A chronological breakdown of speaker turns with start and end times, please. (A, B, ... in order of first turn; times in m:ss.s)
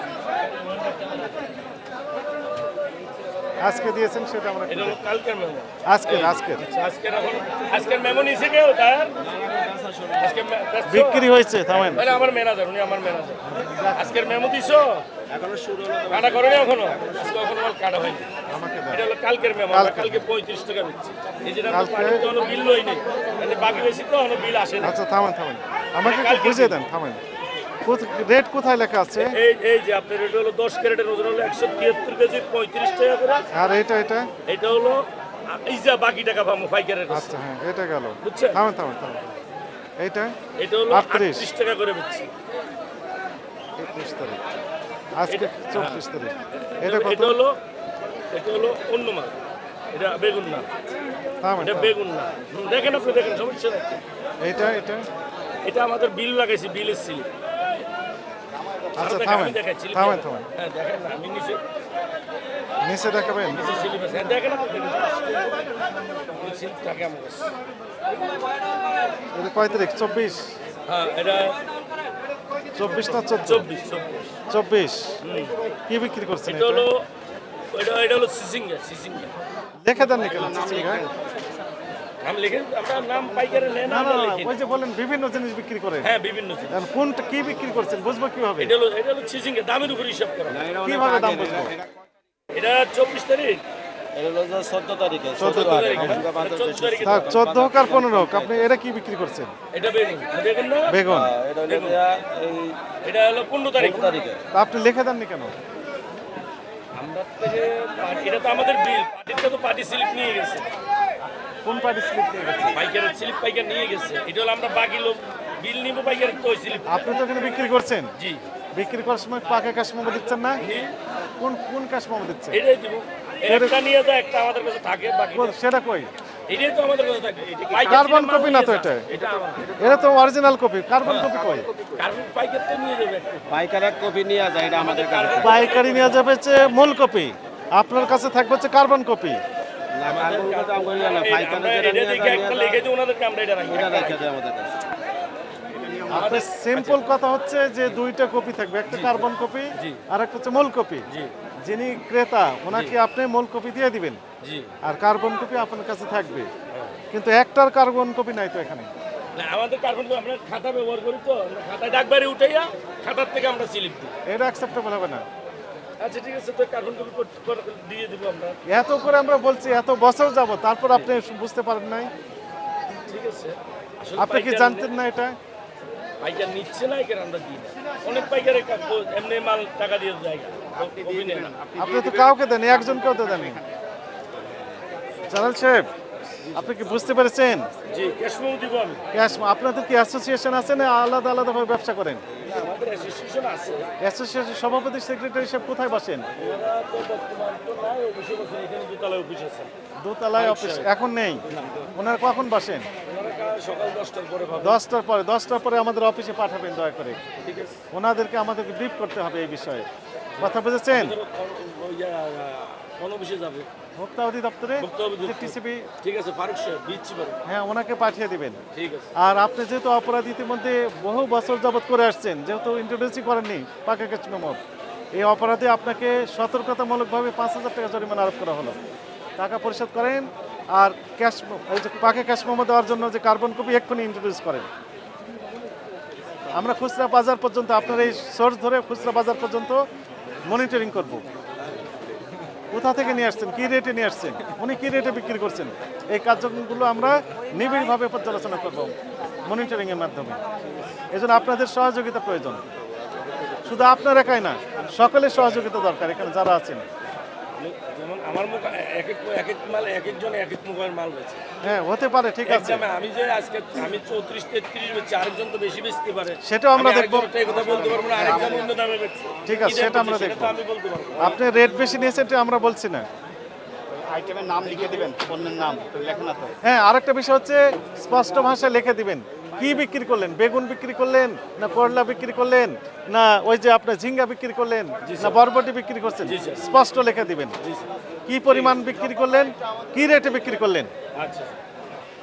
0:03.6-0:05.0 A
0:04.7-0:09.1 B
0:05.8-0:06.6 A
0:09.2-0:10.4 C
0:10.2-0:15.0 B
0:10.8-0:12.0 A
0:13.4-0:14.2 A
0:15.3-0:17.3 C
0:16.1-0:18.3 B
0:18.5-0:19.0 A
0:18.9-0:25.0 B
0:19.7-0:20.2 A
0:21.7-0:22.3 A
0:24.8-0:27.2 A
0:26.0-0:26.8 B
0:27.8-0:29.3 A
0:29.2-0:33.5 B
0:33.5-0:34.3 A
0:34.4-0:37.4 B
0:37.1-0:39.3 A
0:38.2-0:38.6 B
0:40.0-0:40.3 A
0:40.6-0:42.3 B
0:40.9-0:41.5 A
0:43.8-0:44.4 A
0:45.2-0:47.4 A
0:45.3-0:46.0 B
0:46.8-0:47.6 B
0:48.3-0:49.4 B
0:49.9-0:50.7 B
0:51.4-0:52.0 A
0:51.6-0:54.0 B
0:54.4-0:55.0 A
0:55.6-0:57.3 B
0:58.9-1:01.6 B
0:59.0-1:00.5 A
1:02.8-1:03.6 A
1:03.5-1:05.6 B
1:06.4-1:07.5 B
1:08.1-1:08.4 B
1:09.3-1:10.5 A
1:10.8-1:11.6 B
1:12.8-1:13.7 A
1:12.9-1:14.3 B
1:14.5-1:15.2 A
1:15.2-1:15.6 B
1:15.9-1:16.9 A
1:16.4-1:17.1 B
1:17.7-1:19.3 B
1:19.8-1:21.0 A
1:20.0-1:21.1 C
1:22.2-1:24.6 B
1:23.8-1:26.1 A
1:26.0-1:26.8 B
1:26.7-1:28.7 A
1:28.6-1:30.6 B
1:30.5-1:32.0 C
1:30.8-1:31.8 A
1:32.5-1:33.6 B
1:34.1-1:38.7 C
1:35.4-1:36.3 A
1:35.4-1:37.5 B
1:37.0-1:39.5 A
1:39.7-1:41.0 B
1:40.9-1:41.3 A
1:41.0-1:42.8 C
1:41.6-1:42.0 B
1:43.0-1:44.3 B
1:43.8-1:44.4 C
1:44.5-1:45.5 A
1:46.9-1:50.7 B
1:51.6-1:52.8 A
1:52.7-1:57.0 B
1:56.8-1:58.1 A
1:58.2-1:58.4 B
1:58.7-2:00.6 A
2:00.6-2:00.9 B
2:01.4-2:02.6 A
2:02.5-2:05.6 B
2:03.5-2:03.8 A
2:05.3-2:06.1 A
2:06.5-2:09.9 B
2:07.9-2:09.1 A
2:09.8-2:11.7 A
2:11.0-2:11.4 B
2:11.6-2:12.0 C
2:11.9-2:13.5 B
2:13.5-2:15.6 C
2:14.8-2:16.3 B
2:15.4-2:19.4 A
2:19.9-2:22.8 C
2:20.0-2:24.3 B
2:23.6-2:24.8 C
2:25.7-2:26.4 C
2:26.1-2:31.1 A
2:26.1-2:27.0 B
2:28.9-2:30.0 B
2:31.6-2:34.2 A
2:32.7-2:33.0 B
2:34.4-2:34.8 B
2:34.8-2:36.5 A
2:36.7-2:37.0 B
2:37.1-2:38.9 A
2:39.4-2:44.1 B
2:44.2-2:45.2 A
2:46.0-2:48.6 B
2:48.7-2:52.1 A
2:53.1-2:54.9 B
2:54.2-2:55.4 A
2:56.2-3:01.6 B
3:00.8-3:03.7 C
3:01.8-3:03.6 A
3:05.3-3:05.9 A
3:06.3-3:06.6 B
3:06.5-3:07.7 A
3:07.9-3:09.0 B
3:09.1-3:12.2 A
3:12.4-3:13.9 B
3:14.0-3:16.3 A
3:16.3-3:19.7 B
3:20.0-3:22.9 A
3:20.3-3:20.9 B
3:21.4-3:21.9 B
3:23.0-3:24.8 B
3:24.6-3:27.2 A
3:27.4-3:27.8 B
3:27.9-3:29.9 A
3:30.3-3:33.7 B
3:30.4-3:31.2 A
3:34.0-3:35.9 A
3:34.8-3:37.4 B
3:37.4-3:38.6 A
3:38.7-3:39.1 B
3:39.2-3:44.6 A
3:45.1-3:48.8 A
3:49.4-3:54.7 A
3:56.5-3:59.8 A
4:00.4-4:01.2 A
4:02.7-4:08.9 A
4:09.4-4:10.4 A
4:11.1-4:12.6 A
4:13.6-4:16.8 A
4:17.6-4:21.4 B
4:21.6-4:22.8 A
4:22.4-4:31.4 B
4:26.4-4:27.3 A
4:27.5-4:28.7 C
4:29.4-4:30.5 A
4:31.2-4:33.1 A
4:34.0-4:36.5 C
4:36.6-4:47.6 A
4:45.0-4:45.4 B
4:46.2-4:46.6 B
4:47.6-4:47.9 B
4:48.3-4:50.9 A
4:48.5-4:48.8 B
4:51.1-4:51.6 B